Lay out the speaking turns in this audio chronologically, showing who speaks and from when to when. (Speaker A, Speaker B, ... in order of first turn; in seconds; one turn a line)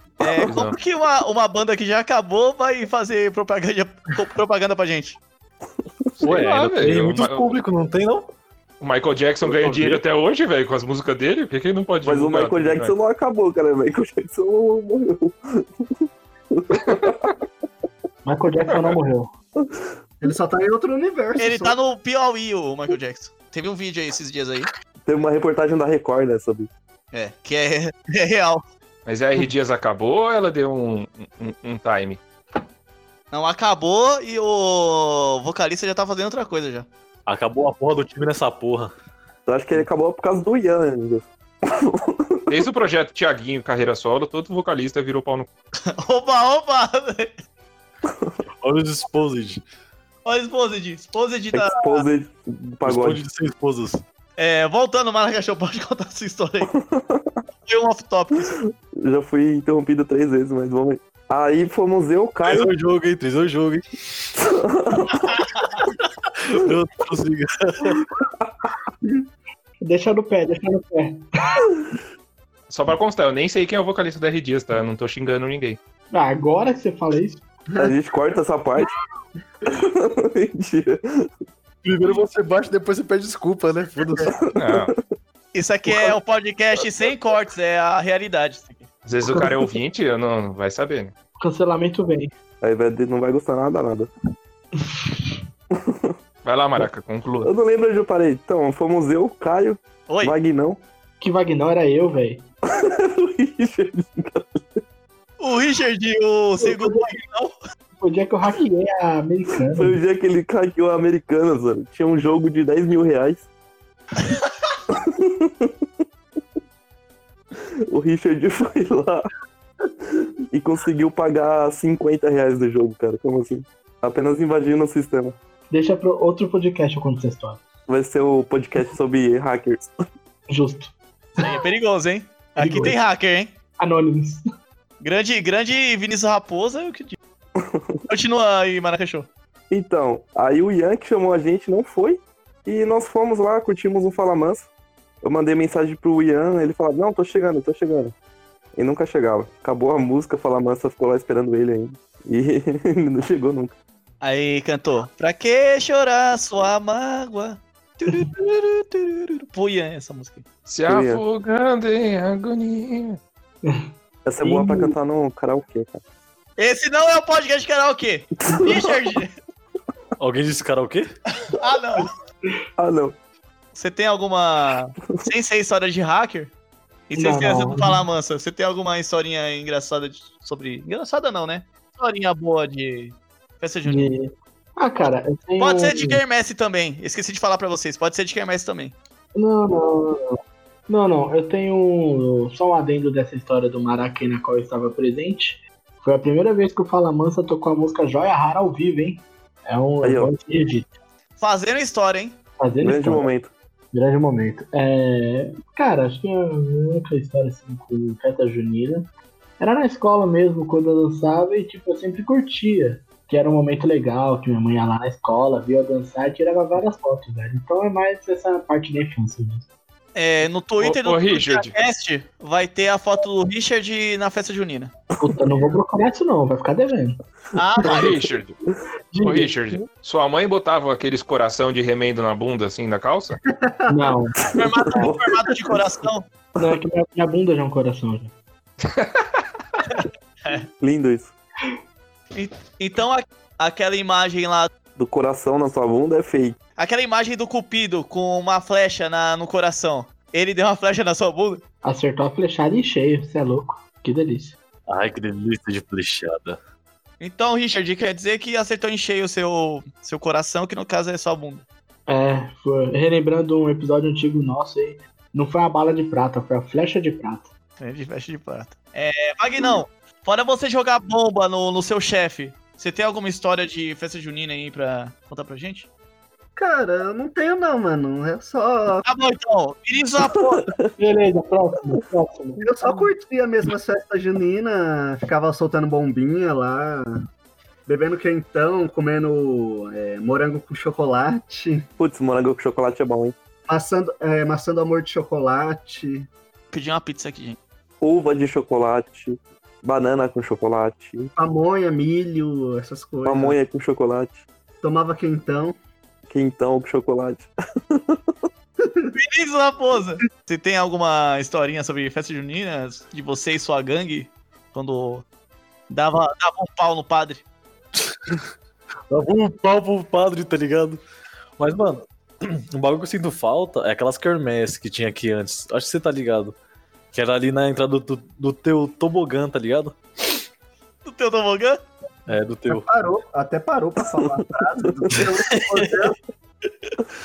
Speaker A: 0.2-5.2
Speaker B: 0.5-0.8
Speaker B: 6.2-7.5
Speaker C: 6.2-8.3
Speaker B: 8.8-12.9
Speaker D: 9.4-10.0
Speaker D: 12.0-17.4
Speaker B: 16.8-17.1
Speaker E: 18.2-19.3
Speaker B: 18.6-19.0
Speaker D: 19.6-19.9
Speaker F: 20.2-21.8
Speaker A: 21.4-24.7
Speaker D: 25.1-26.7
Speaker A: 27.1-28.6
Speaker B: 29.1-32.2
Speaker A: 33.3-36.9
Speaker C: 37.3-38.9
Speaker D: 39.5-42.6
Speaker B: 42.5-45.5
Speaker A: 45.9-47.4
Speaker D: 48.1-48.3
Speaker C: 48.6-49.6
Speaker A: 50.2-52.1
Speaker D: 51.5-53.2
Speaker C: 52.8-54.0
Speaker A: 54.4-56.7
Speaker D: 56.6-57.4
Speaker A: 57.6-58.6
Speaker D: 58.9-62.7
Speaker C: 62.5-64.3
Speaker D: 64.4-65.2
Speaker A: 65.1-65.8
Speaker C: 65.8-68.0
Speaker E: 69.8-71.6
Speaker B: 72.7-75.8
Speaker E: 76.1-77.4
Speaker D: 77.8-78.9
Speaker D: 79.7-81.3
Speaker C: 81.8-84.4
Speaker D: 84.2-84.9
Speaker B: 84.5-84.9
Speaker A: 85.5-88.9
Speaker B: 89.0-91.1
Speaker E: 89.3-89.7
Speaker E: 91.4-92.3
Speaker D: 92.6-94.1
Speaker D: 95.7-96.2
Speaker B: 96.5-97.5
Speaker D: 97.4-100.8
Speaker A: 100.1-100.4
Speaker E: 101.2-102.5
Speaker D: 102.7-104.8
Speaker A: 105.4-107.6
Speaker E: 106.6-107.0
Speaker E: 108.0-110.0
Speaker D: 109.7-113.5
Speaker A: 114.2-114.5
Speaker D: 114.9-115.7
Speaker D: 117.9-119.3
Speaker D: 120.5-125.4
Speaker E: 125.7-127.6
Speaker D: 127.9-129.9
Speaker E: 130.5-131.6
Speaker A: 131.4-133.6
Speaker E: 132.6-133.0
Speaker E: 133.8-134.4
Speaker A: 135.0-137.2
Speaker D: 137.6-137.9
Speaker A: 138.1-139.3
Speaker D: 139.7-144.7
Speaker D: 145.2-148.1
Speaker D: 148.8-153.8
Speaker A: 154.2-160.4
Speaker B: 160.7-163.2
Speaker D: 160.9-161.2
Speaker D: 164.2-166.0
Speaker E: 164.4-164.9
Speaker A: 166.6-169.3
Speaker D: 168.5-168.9
Speaker C: 170.2-171.1
Speaker A: 171.5-172.1
Speaker D: 172.8-173.2
Speaker A: 173.8-176.5
Speaker A: 177.1-184.1
Speaker E: 177.2-178.0
Speaker E: 183.8-186.2
Speaker A: 185.6-189.0
Speaker E: 189.4-200.9
Speaker D: 200.0-200.3
Speaker A: 201.4-202.4
Speaker E: 202.6-203.3
Speaker D: 202.8-203.5
Speaker E: 203.9-219.7
Speaker A: 220.2-224.9
Speaker B: 220.8-221.8
Speaker E: 225.2-227.2
Speaker D: 225.2-225.5
Speaker A: 227.6-228.2
Speaker B: 227.8-228.6
Speaker D: 227.9-228.3
Speaker E: 229.1-229.5
Speaker B: 229.2-233.4
Speaker F: 233.5-234.2
Speaker E: 233.9-234.4
Speaker D: 234.5-235.9
Speaker A: 234.5-236.3
Speaker E: 236.6-238.3
Speaker B: 238.8-239.3
Speaker A: 240.0-240.7
Speaker D: 240.8-241.3
Speaker A: 242.3-244.7
Speaker D: 245.0-246.6
Speaker A: 246.8-251.6
Speaker E: 251.8-254.6
Speaker C: 254.9-256.6
Speaker A: 257.2-261.6
Speaker E: 262.1-267.5
Speaker A: 267.8-275.9
Speaker F: 276.6-279.1
Speaker A: 279.0-280.7
Speaker D: 280.5-280.9
Speaker E: 281.0-283.1
Speaker F: 282.6-287.2
Speaker F: 287.9-291.9
Speaker D: 292.0-293.4
Speaker F: 293.7-296.3
Speaker A: 296.7-297.6
Speaker D: 298.0-301.3
Speaker F: 301.4-303.6
Speaker D: 303.2-304.4
Speaker F: 304.8-305.8
Speaker D: 306.3-308.3
Speaker F: 308.8-309.1
Speaker A: 309.1-315.2
Speaker A: 315.9-317.4
Speaker C: 318.1-318.4
Speaker C: 319.1-321.0
Speaker C: 321.6-326.6
Speaker C: 327.1-330.4
Speaker A: 331.1-331.8
Speaker C: 332.3-332.9
Speaker F: 332.7-336.2
Speaker C: 335.2-336.1